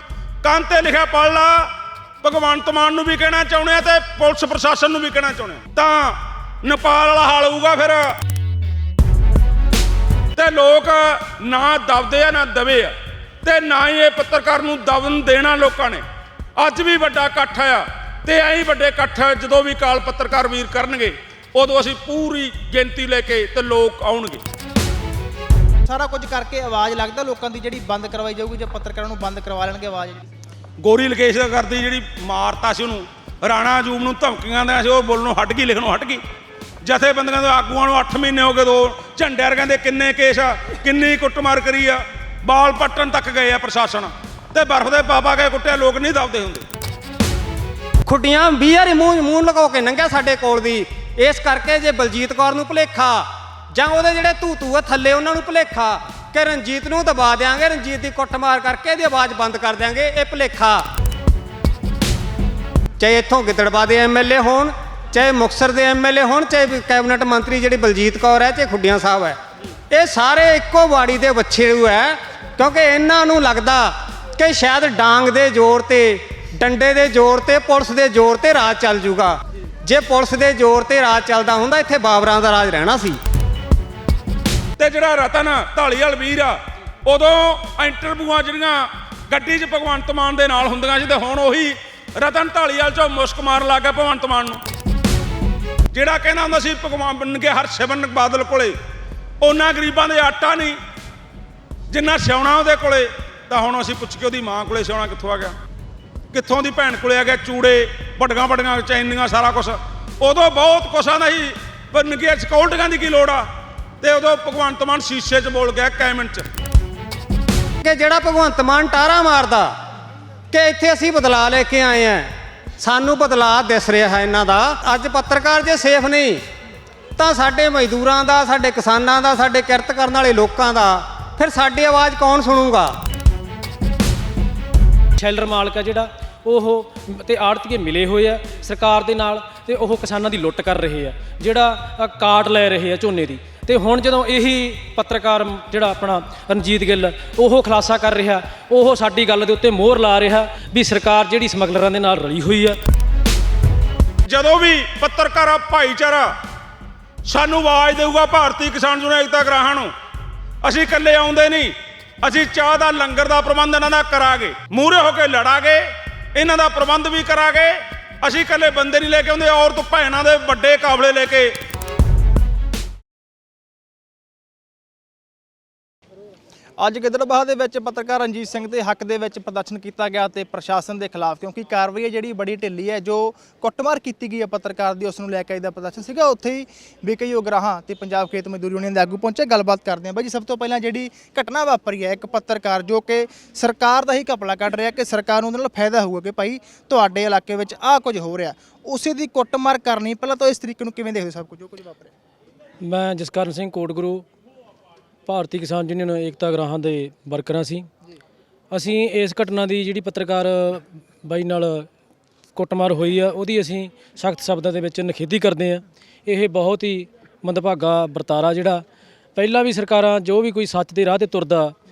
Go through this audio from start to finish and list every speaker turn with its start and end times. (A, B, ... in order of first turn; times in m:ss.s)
0:00.4-0:01.7 A
0:02.2-0:08.0 A
0:10.4-0:16.0 A
0:16.6-0:24.4 A
0:25.9-0:30.3 B
0:30.8-0:36.2 A
0:36.8-0:46.6 A
0:48.1-1:00.8 C
1:03.0-1:09.4 C
1:09.9-1:23.2 C
1:24.8-1:34.6 A
1:35.9-1:38.8 A
1:39.4-1:40.8 A
1:41.9-1:45.5 A
1:46.3-1:53.4 A
1:54.0-1:56.5 A
1:57.8-1:59.7 C
2:00.5-2:06.4 C
2:07.2-2:12.9 C
2:15.2-2:32.8 D
2:34.3-2:36.3 A
2:37.3-2:39.9 A
2:40.6-2:45.8 A
2:46.4-2:51.5 A
2:56.8-3:22.1 B
3:22.8-3:24.2 D
3:25.3-3:27.9 D
3:28.7-3:31.9 D
3:32.6-3:38.8 D
3:39.4-3:41.8 D